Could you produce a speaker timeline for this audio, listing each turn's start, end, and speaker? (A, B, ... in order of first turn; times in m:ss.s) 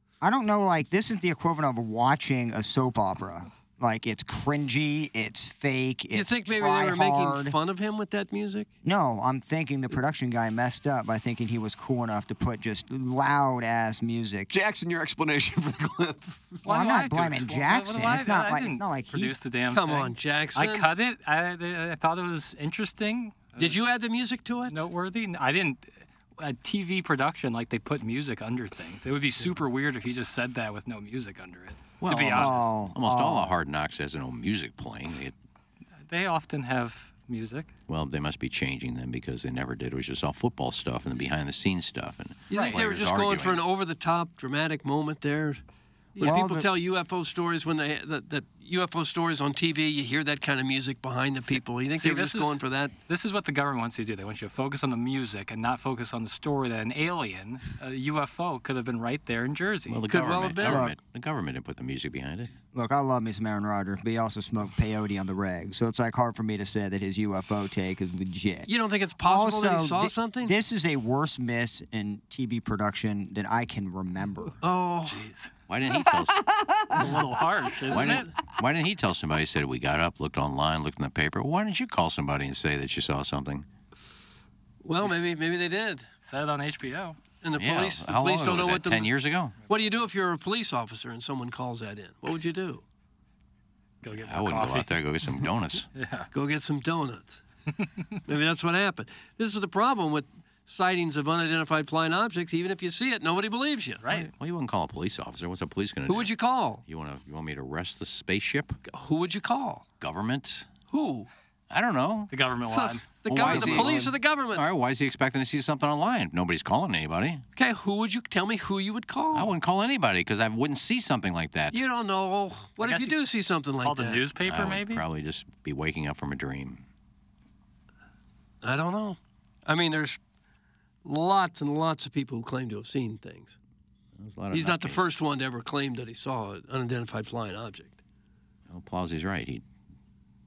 0:00.2-0:07.6 A
0:06.1-0:08.7 B
0:08.8-0:14.5 A
0:14.5-0:16.6 C
0:16.6-0:23.9 D
0:16.6-0:19.3 A
0:19.7-0:20.9 B
0:23.6-0:24.8 B
0:24.7-0:32.7 D
0:32.0-0:35.3 E
0:32.3-0:33.6 A
0:36.1-0:37.7 D
0:37.9-0:43.6 E
0:42.5-0:45.6 B
0:42.5-0:42.8 D
0:46.2-0:52.9 B
0:46.2-0:46.7 A
0:52.0-1:00.0 D
0:59.9-1:02.5 E
1:00.1-1:00.8 B
1:00.6-1:00.9 A
1:02.7-1:14.6 A
1:08.7-1:10.5 B
1:14.6-1:15.3 B
1:15.1-1:15.5 D
1:15.7-1:16.5 E
1:16.9-1:18.3 D
1:17.9-1:18.3 B
1:17.9-1:23.6 E
1:24.8-1:26.1 B
1:26.2-1:27.2 D
1:27.4-1:29.1 B
1:27.6-1:29.5 E
1:29.7-1:32.8 B
1:34.0-1:35.0 D
1:34.2-1:35.9 E
1:35.9-1:36.3 D
1:36.3-1:37.4 B
1:38.3-1:44.2 B
1:44.0-1:44.3 D
1:44.1-1:46.3 E
1:46.1-1:46.8 B
1:46.8-1:48.8 E
1:48.9-1:49.8 B
1:50.0-1:50.7 E
1:50.9-1:51.3 B
1:51.7-1:52.3 E
1:52.3-1:54.1 D
1:52.6-1:54.6 B
1:53.2-1:57.4 E
1:57.6-1:59.5 B
1:59.3-2:01.8 E
2:01.7-2:04.2 B
2:02.8-2:03.2 D
2:03.8-2:05.0 D
2:04.4-2:06.8 E
2:08.6-2:10.2 B
2:11.0-2:13.6 B
2:14.2-2:15.0 E
2:14.5-2:18.0 B
2:18.7-2:19.6 E